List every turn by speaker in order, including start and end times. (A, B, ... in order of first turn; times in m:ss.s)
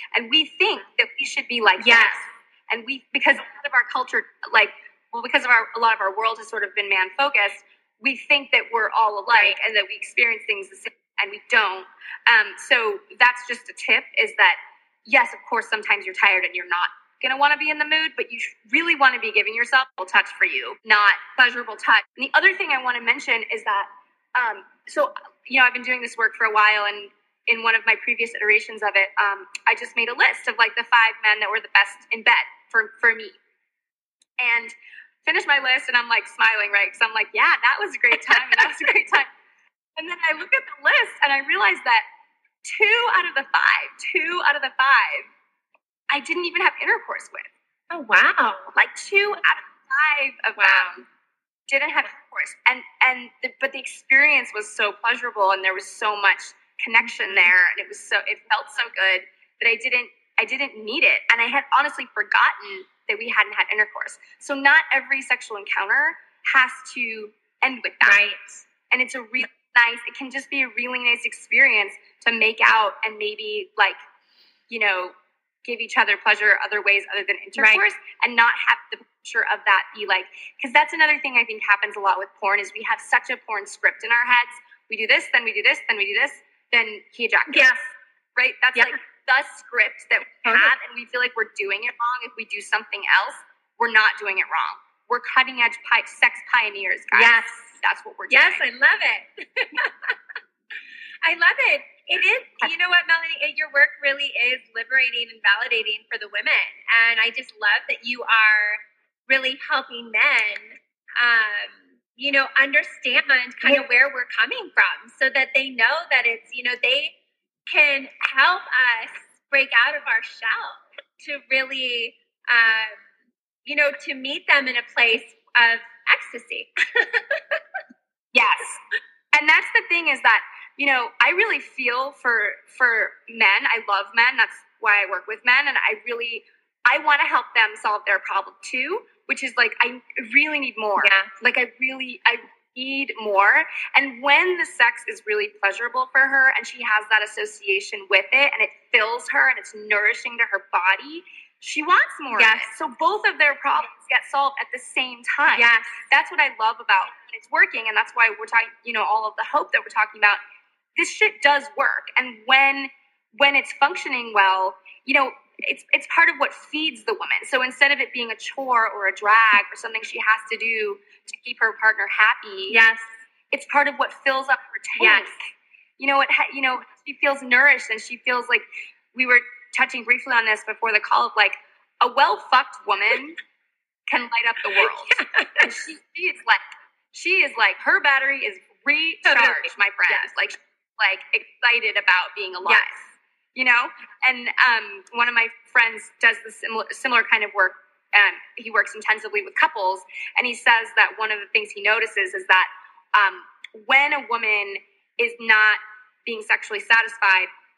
0:00.1-0:33.4 A
0:01.8-0:02.2 B
0:09.3-0:09.6 B
0:34.4-0:39.3 A
0:38.4-0:38.7 B
0:40.0-0:42.0 A
0:42.6-0:45.3 A
0:46.1-0:47.5 A
0:47.9-0:48.7 B
0:48.7-0:51.0 A
0:50.6-0:51.0 B
0:51.7-1:08.2 A
0:57.1-0:57.5 B
1:08.0-1:08.5 B
1:08.9-1:14.0 A
1:14.7-1:15.1 A
1:15.6-1:27.7 A
1:17.6-1:17.8 B
1:27.5-1:27.8 B
1:28.4-1:38.6 A
1:30.4-1:30.7 B
1:37.1-1:37.7 B
1:38.3-1:40.2 B
1:41.2-1:57.1 B
1:57.7-2:03.0 B
2:03.7-2:07.6 B
2:08.3-2:08.8 A
2:09.3-2:40.4 A
2:21.0-2:21.3 B
2:32.3-2:32.7 B
2:35.5-2:35.9 B
2:41.0-2:52.8 A
2:52.7-2:53.0 B
2:53.5-2:55.4 A
2:55.0-2:55.3 B
2:56.0-3:03.4 A
3:04.1-3:13.0 A
3:04.8-3:05.7 B
3:09.3-3:10.3 B
3:12.6-3:13.0 B
3:13.6-3:27.5 A